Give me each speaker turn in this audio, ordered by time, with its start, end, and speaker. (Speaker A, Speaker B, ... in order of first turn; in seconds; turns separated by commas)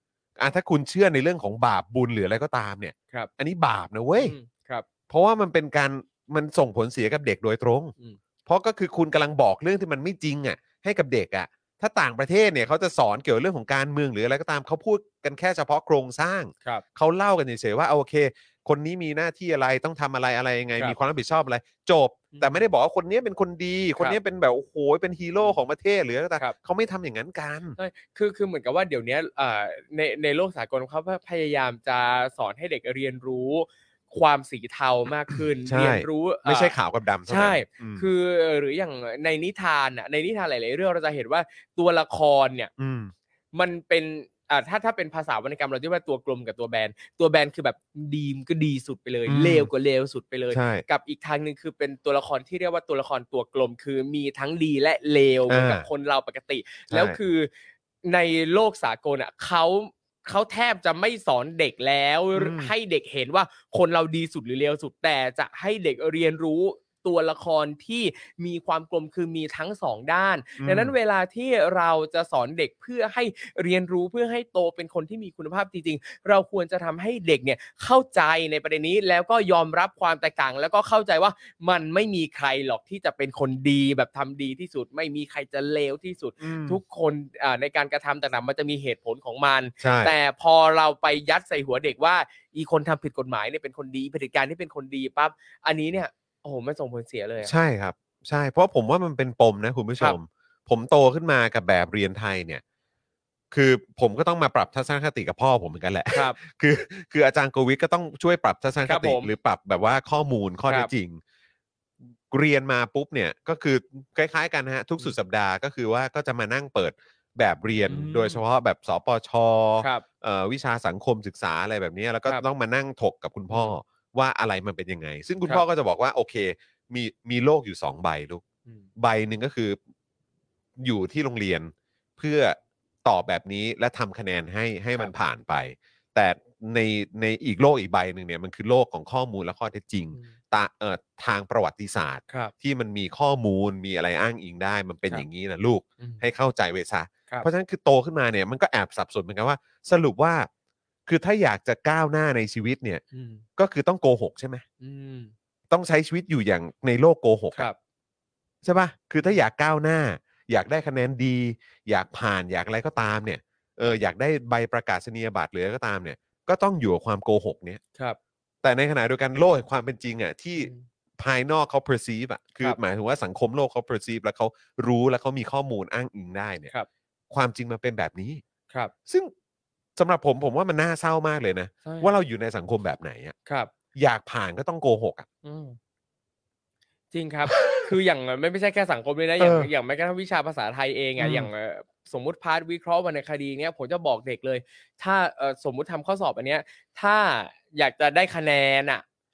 Speaker A: 0.4-4.3, Speaker B: 4.2-4.9, Speaker A: 5.1-7.9, Speaker A: 8.4-27.8, Speaker B: 22.3-22.7, Speaker B: 27.8-36.7, Speaker A: 35.6-38.1, Speaker B: 37.3-42.7, Speaker A: 42.8-43.1, Speaker B: 43.5-57.5, Speaker A: 49.3-49.7, Speaker A: 50.5-50.8, Speaker A: 55.5-55.9, Speaker A: 56.9-57.2, Speaker B: 58.0-97.5, Speaker A: 62.3-62.7, Speaker A: 70.6-70.9, Speaker A: 86.4-86.8, Speaker A: 89.8-90.1, Speaker A: 97.4-102.6, Speaker A: 103.5-111.2, Speaker B: 106.1-106.4, Speaker B: 108.9-109.3, Speaker A: 112.3-128.4, Speaker B: 117.9-118.4, Speaker A: 129.0-129.8, Speaker A: 130.8-150.5, Speaker A: 151.1-153.0, Speaker B: 153.1-153.4, Speaker A: 153.6-154.6, Speaker B: 154.8-155.3, Speaker A: 155.7-157.7, Speaker A: 158.6-167.8, Speaker A: 168.6-176.7, Speaker B: 170.6-170.8, Speaker A: 177.3-178.4, Speaker A: 179.1-179.3, Speaker A: 179.9-183.3, Speaker B: 181.8-182.1, Speaker A: 183.9-185.3, Speaker B: 185.4-185.8, Speaker B: 187.1-199.0, Speaker A: 187.5-187.9, Speaker A: 189.4-189.7, Speaker A: 191.2-191.5